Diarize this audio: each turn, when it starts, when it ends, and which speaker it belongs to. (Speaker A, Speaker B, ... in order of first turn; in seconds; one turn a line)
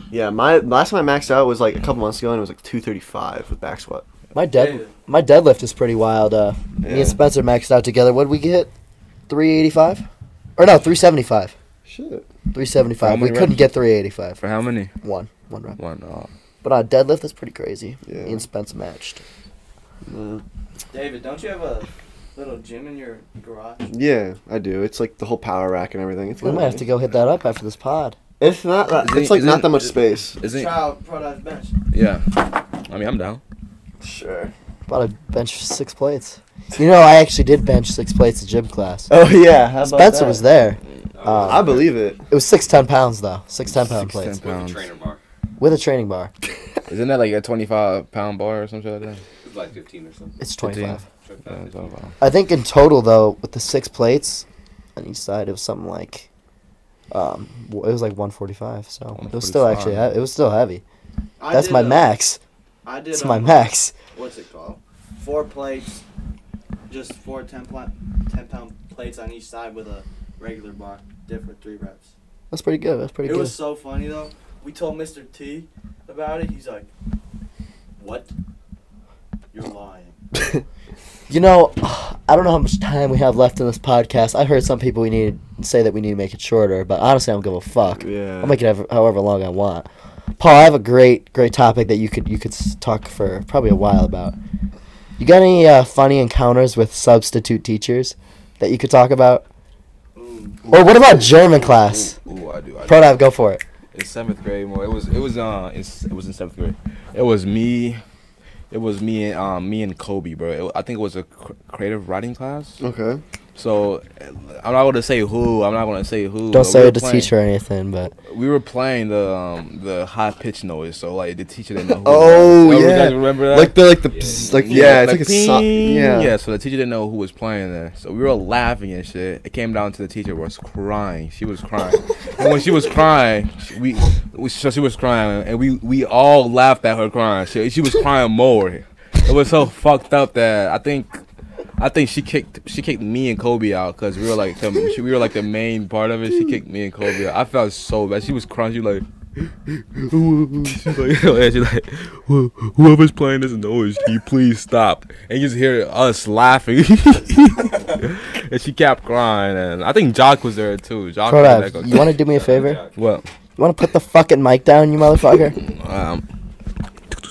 Speaker A: 0.1-4.0
Speaker B: 4.3-8.7
Speaker C: 4.5-4.9
Speaker A: 6.8-7.2
Speaker B: 9.3-10.0
Speaker B: 10.6-11.5
Speaker A: 11.8-12.2
Speaker B: 12.5-14.4
Speaker D: 13.0-13.7
Speaker D: 14.4-14.9
Speaker B: 15.0-15.8
Speaker D: 15.8-16.3
Speaker B: 16.6-19.2
Speaker A: 18.1-18.4
Speaker A: 20.1-20.4
Speaker C: 20.9-23.9
Speaker A: 23.9-26.9
Speaker B: 26.4-28.1
Speaker A: 28.4-30.4
Speaker D: 29.0-30.8
Speaker C: 30.4-31.7
Speaker D: 31.9-33.4
Speaker A: 34.0-34.5
Speaker B: 34.9-39.1
Speaker A: 39.1-40.4
Speaker B: 39.8-41.8
Speaker E: 41.1-41.9
Speaker A: 41.4-42.2
Speaker B: 42.3-44.4
Speaker D: 43.8-44.9
Speaker E: 44.4-45.2
Speaker B: 45.6-46.3
Speaker D: 46.9-49.2
Speaker E: 49.4-50.4
Speaker B: 50.4-51.0
Speaker D: 50.6-52.1
Speaker E: 51.2-51.9
Speaker B: 52.2-54.4
Speaker B: 55.0-56.3
Speaker B: 57.1-60.8
Speaker D: 59.2-60.1
Speaker C: 61.4-62.1
Speaker B: 61.5-62.4
Speaker C: 62.8-66.0
Speaker B: 63.1-63.9
Speaker C: 66.9-72.1
Speaker B: 72.5-73.5
Speaker C: 73.2-76.9
Speaker C: 78.0-78.3
Speaker C: 79.5-80.1
Speaker B: 81.3-89.9
Speaker A: 88.0-88.6
Speaker B: 90.4-94.3
Speaker B: 95.2-99.4
Speaker C: 100.2-100.6
Speaker D: 100.7-103.2
Speaker B: 100.7-102.2
Speaker B: 102.8-103.6
Speaker D: 103.9-108.0
Speaker D: 108.7-112.8
Speaker A: 112.8-113.2
Speaker D: 113.5-117.3
Speaker B: 116.5-118.1
Speaker D: 118.3-141.2
Speaker A: 122.0-126.3
Speaker E: 124.1-124.9
Speaker D: 141.8-162.0
Speaker B: 161.3-162.8
Speaker E: 162.3-162.9
Speaker D: 162.9-163.2
Speaker B: 163.6-165.6
Speaker D: 165.6-166.2